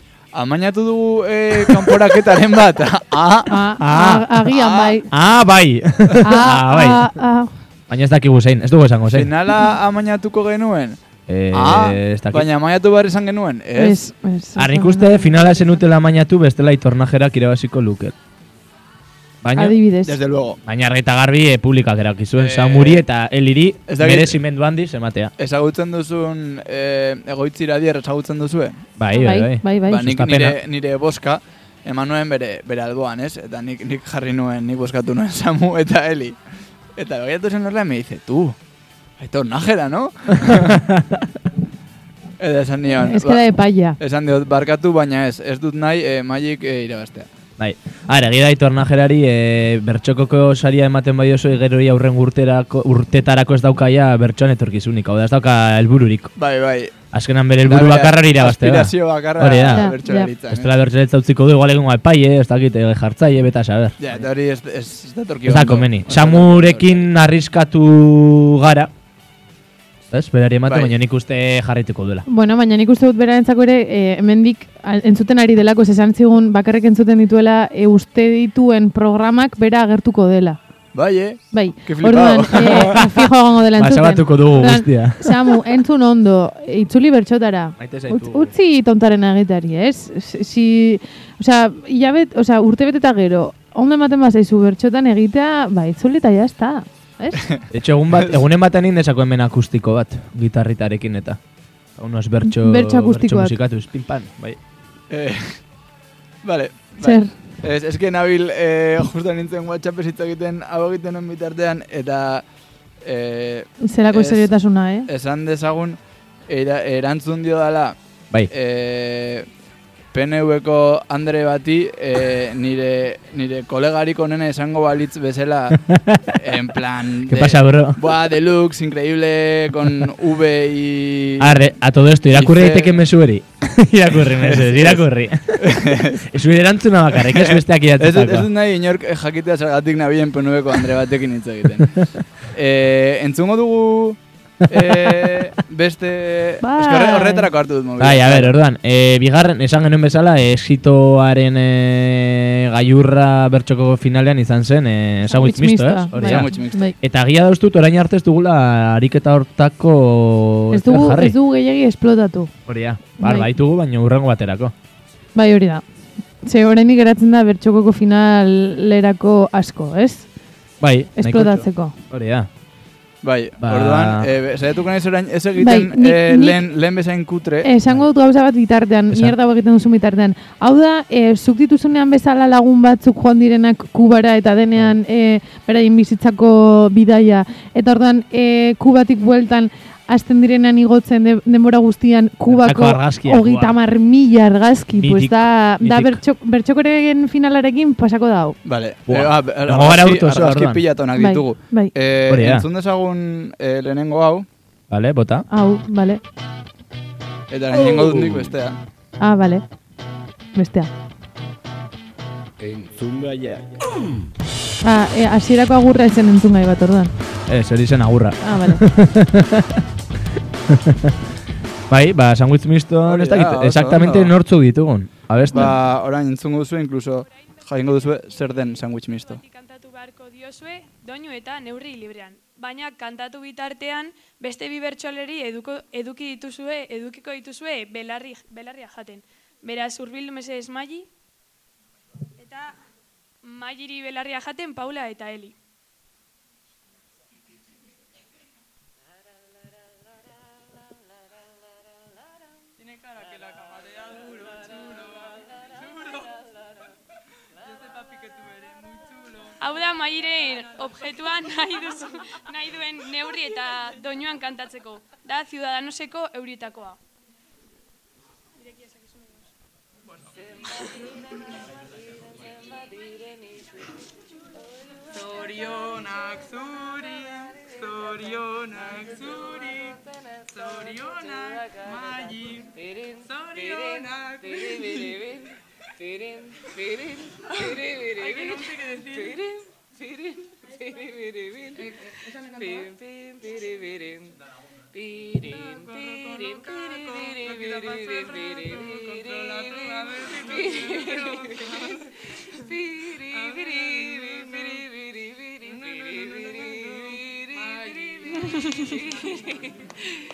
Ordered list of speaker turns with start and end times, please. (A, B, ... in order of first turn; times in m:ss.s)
0:00.3-0:03.5 A
0:03.5-0:05.1 B
0:03.8-0:04.3 C
0:04.5-0:05.0 A
0:05.1-0:07.1 C
0:06.2-0:07.5 B
0:07.9-0:09.3 C
0:09.1-0:11.0 A
0:11.3-0:12.5 C
0:11.5-0:14.1 A
0:13.8-0:15.7 B
0:14.6-0:18.1 C
0:19.4-0:19.8 C
0:19.6-0:20.1 B
0:20.0-0:20.6 A
0:20.6-0:25.3 C
0:22.4-0:23.0 A
0:23.9-0:24.4 A
0:25.4-0:28.8 A
0:29.0-0:30.6 C
0:29.1-0:30.0 B
0:29.9-0:36.4 A
0:37.0-0:38.6 A
0:39.2-0:40.8 A
0:40.4-0:41.2 C
0:42.4-0:43.4 A
0:43.0-0:44.0 B
0:44.0-0:47.3 A
0:47.6-0:56.3 C
0:56.4-0:56.9 A
0:57.1-0:59.9 C
0:57.6-1:00.7 A
0:59.7-1:00.3 B
1:00.5-1:04.0 C
1:04.0-1:07.0 A
1:05.4-1:08.9 C
1:10.1-1:12.2 C
1:10.6-1:10.9 A
1:12.3-1:20.6 B
1:20.9-1:23.0 A
1:21.5-1:37.4 B
1:23.8-1:25.4 C
1:27.8-1:28.5 C
1:37.4-1:38.4 A
1:37.7-1:41.4 C
1:42.0-1:44.6 C
1:42.4-1:43.5 B
1:45.1-1:45.6 A
1:46.4-1:52.4 A
1:47.0-1:47.3 B
1:53.0-1:54.5 A
1:53.8-1:55.1 B
1:55.0-1:58.0 A
1:58.5-1:59.5 A
2:00.1-2:11.8 A
2:05.7-2:06.3 C
2:07.3-2:08.0 C
2:11.4-2:18.5 C
2:12.3-2:13.0 A
2:14.3-2:16.3 A
2:17.1-2:28.5 A
2:26.6-2:27.5 B
2:28.0-2:41.3 C
2:35.3-2:36.9 B
2:36.2-2:36.8 A
2:40.7-2:42.5 B
2:42.7-2:44.7 C
2:43.2-2:43.5 B
2:45.4-2:45.8 B
2:46.4-2:50.3 B
2:50.8-2:52.5 C
2:51.2-2:52.0 B
2:53.2-2:57.7 A
2:53.6-2:54.3 C
2:55.6-2:56.6 B
2:57.6-3:18.6 B
3:12.5-3:13.8 C
3:15.0-3:16.2 C
3:18.6-3:24.4 A
3:19.1-3:20.8 C
3:21.2-3:21.9 B
3:22.3-3:22.7 C
3:24.9-3:25.5 C
3:25.5-3:26.2 B
3:27.5-3:28.8 A
3:27.8-3:28.5 C
3:29.2-3:29.6 B
3:30.6-3:30.9 B
3:34.8-3:37.1 B
3:37.5-3:39.8 C
3:38.4-3:38.8 B
3:40.7-3:41.1 C
3:41.9-3:45.7 C
3:43.0-3:44.3 A
3:45.5-3:49.4 A
3:47.3-3:48.6 D
3:49.2-4:01.1 D
4:02.4-4:02.8 D
4:03.4-4:05.5 D
4:19.6-4:27.0 D
4:28.6-4:29.5 D
4:43.6-4:44.0 E
4:48.2-4:49.4 E
4:52.6-4:53.0 E
4:53.5-4:53.7 E
4:55.1-5:00.1 E
5:00.7-5:01.0 E
5:03.4-5:04.4 E
5:06.1-5:06.8 E